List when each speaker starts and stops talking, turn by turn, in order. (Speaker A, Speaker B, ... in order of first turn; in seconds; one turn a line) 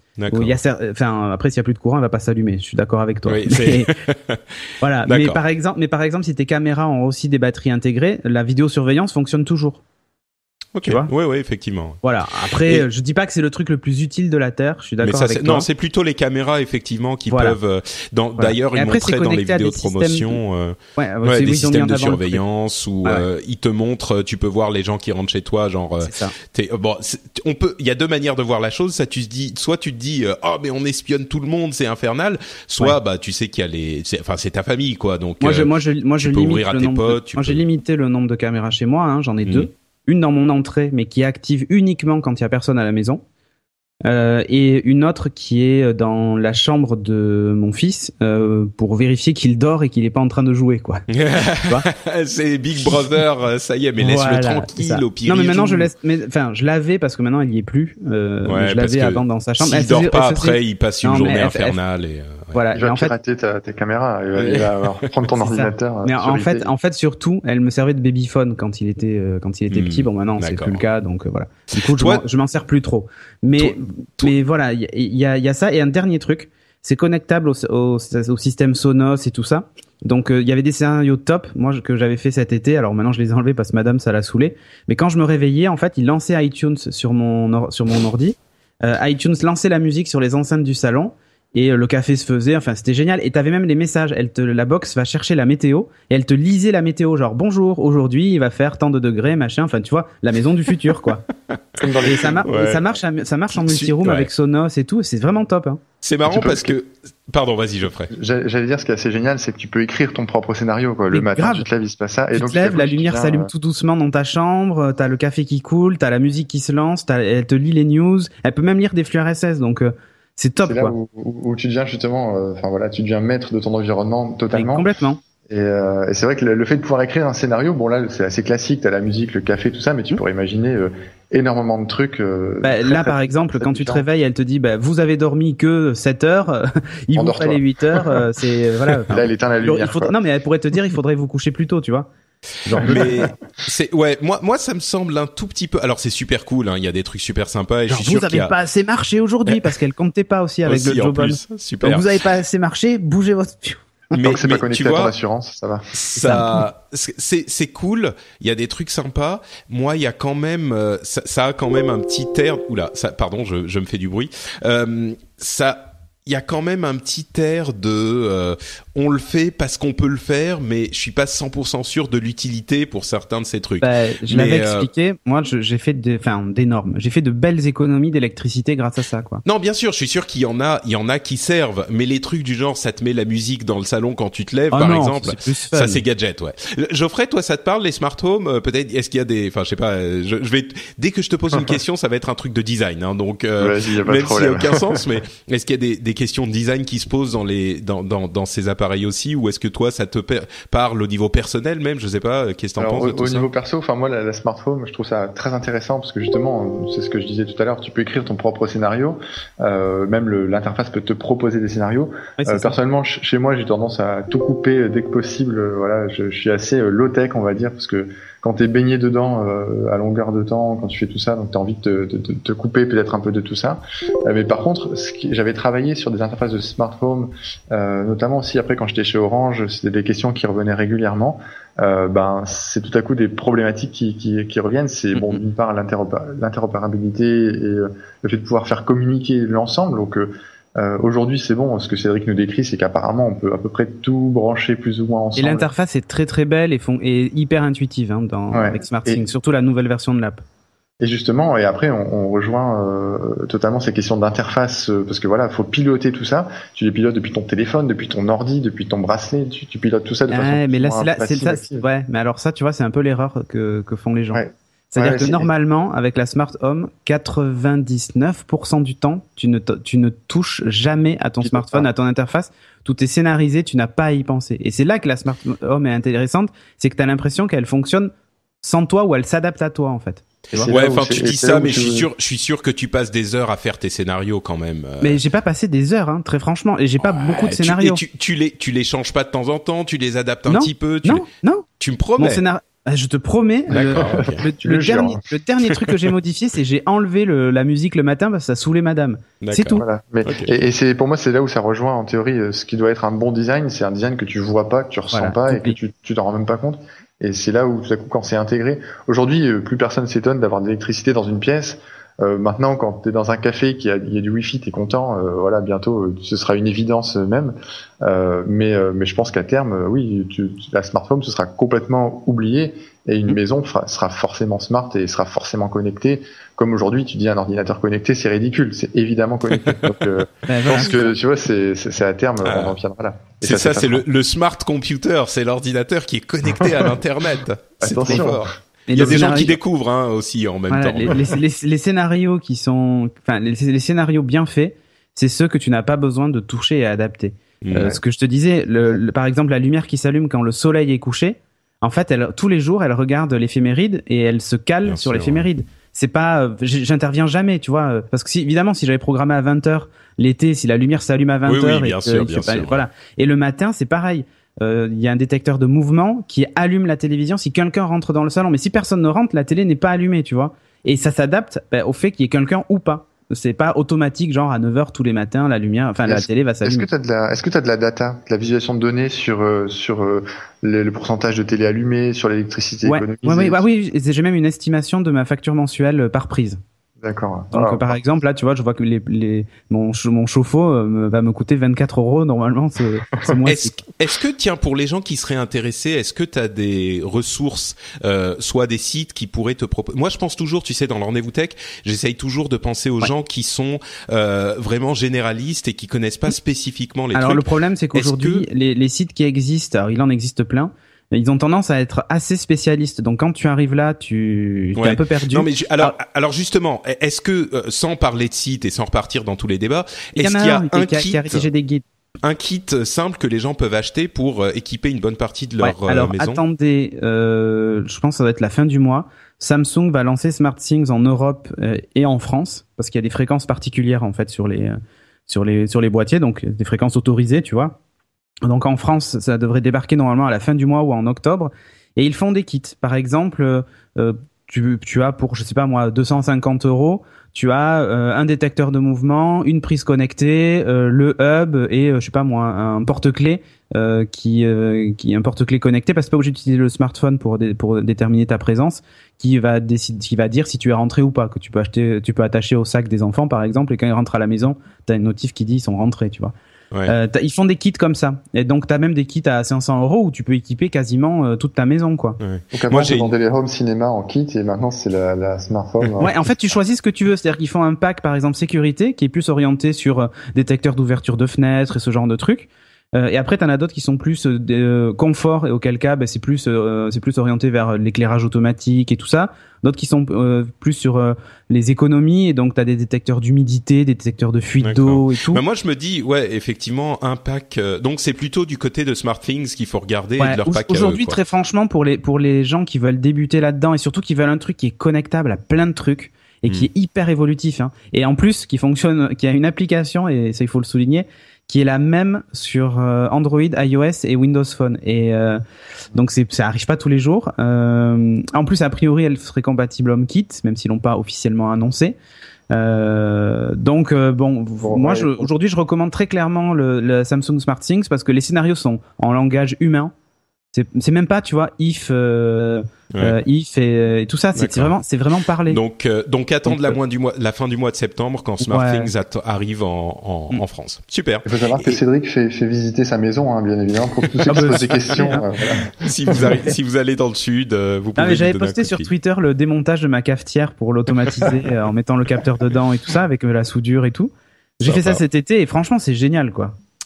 Speaker A: 0.2-0.6
Speaker B: 0.3-3.9
Speaker A: 3.2-4.4
Speaker B: 4.8-9.8
Speaker A: 5.0-5.4
Speaker A: 10.7-12.8
Speaker B: 10.8-11.1
Speaker B: 12.0-15.7
Speaker A: 15.0-37.6
Speaker B: 17.3-17.6
Speaker B: 18.4-20.4
Speaker B: 20.9-22.4
Speaker B: 26.0-26.3
Speaker B: 35.4-43.2
Speaker B: 44.0-51.0
Speaker A: 51.1-55.9
Speaker B: 54.0-61.8
Speaker A: 58.5-62.6
Speaker B: 62.5-63.1
Speaker C: 62.7-66.7
Speaker A: 64.4-65.1
Speaker B: 65.4-101.2
Speaker A: 69.7-70.8
Speaker A: 71.8-72.2
Speaker A: 73.6-74.3
Speaker C: 101.8-102.5
Speaker B: 102.0-105.8
Speaker A: 102.4-102.8
Speaker A: 103.5-104.3
Speaker A: 106.0-108.1
Speaker C: 106.2-106.8
Speaker C: 108.1-113.5
Speaker B: 111.1-111.7
Speaker B: 112.3-120.9
Speaker C: 120.6-124.9
Speaker B: 124.5-125.2
Speaker C: 125.5-134.0
Speaker B: 132.6-142.1
Speaker C: 137.1-138.2
Speaker C: 139.1-140.2
Speaker B: 142.6-143.2
Speaker A: 142.8-148.5
Speaker B: 147.9-153.8
Speaker A: 150.6-152.2
Speaker A: 154.1-155.1
Speaker C: 154.1-155.9
Speaker A: 155.9-174.9
Speaker B: 156.2-156.4
Speaker B: 173.8-179.4
Speaker A: 179.4-203.5
Speaker B: 184.7-186.0
Speaker C: 193.6-195.0
Speaker C: 202.8-245.7
Speaker B: 212.4-212.8
Speaker B: 245.3-250.4
Speaker C: 248.5-249.2
Speaker C: 251.0-261.8
Speaker B: 260.3-280.7
Speaker C: 264.3-265.5
Speaker C: 271.4-271.9
Speaker C: 280.5-282.1
Speaker A: 280.6-285.2
Speaker B: 285.0-288.0
Speaker A: 287.0-291.2
Speaker B: 290.5-291.6
Speaker A: 291.8-292.4
Speaker B: 292.2-299.8
Speaker A: 293.7-294.4
Speaker C: 293.7-295.2
Speaker A: 295.6-296.1
Speaker A: 299.4-300.5
Speaker C: 299.8-334.0
Speaker B: 305.1-305.8
Speaker B: 330.5-331.1
Speaker A: 332.4-332.8
Speaker A: 333.4-341.2
Speaker C: 337.8-339.5
Speaker B: 338.9-339.5
Speaker B: 340.7-376.9
Speaker A: 347.6-347.9
Speaker A: 354.8-355.5
Speaker A: 361.4-362.8
Speaker C: 376.1-383.6
Speaker B: 382.8-386.6
Speaker C: 387.0-388.0
Speaker B: 387.5-393.9
Speaker A: 393.4-408.4
Speaker B: 407.1-415.9
Speaker A: 414.8-421.5
Speaker B: 420.1-421.8
Speaker A: 422.2-426.4
Speaker B: 425.6-437.8
Speaker B: 438.4-466.3
Speaker B: 466.9-472.2
Speaker A: 472.2-473.1
Speaker C: 472.5-476.2
Speaker B: 476.0-495.4
Speaker A: 494.6-501.2
Speaker B: 500.2-515.4
Speaker B: 515.9-522.0
Speaker B: 522.5-529.9
Speaker C: 524.6-525.3
Speaker B: 530.5-535.6
Speaker A: 532.9-533.2
Speaker A: 534.4-534.7
Speaker A: 535.5-541.8
Speaker B: 538.4-538.9
Speaker C: 541.2-546.4
Speaker A: 544.2-544.6
Speaker B: 544.2-545.2
Speaker A: 545.8-548.9
Speaker B: 548.0-556.6
Speaker A: 554.6-555.0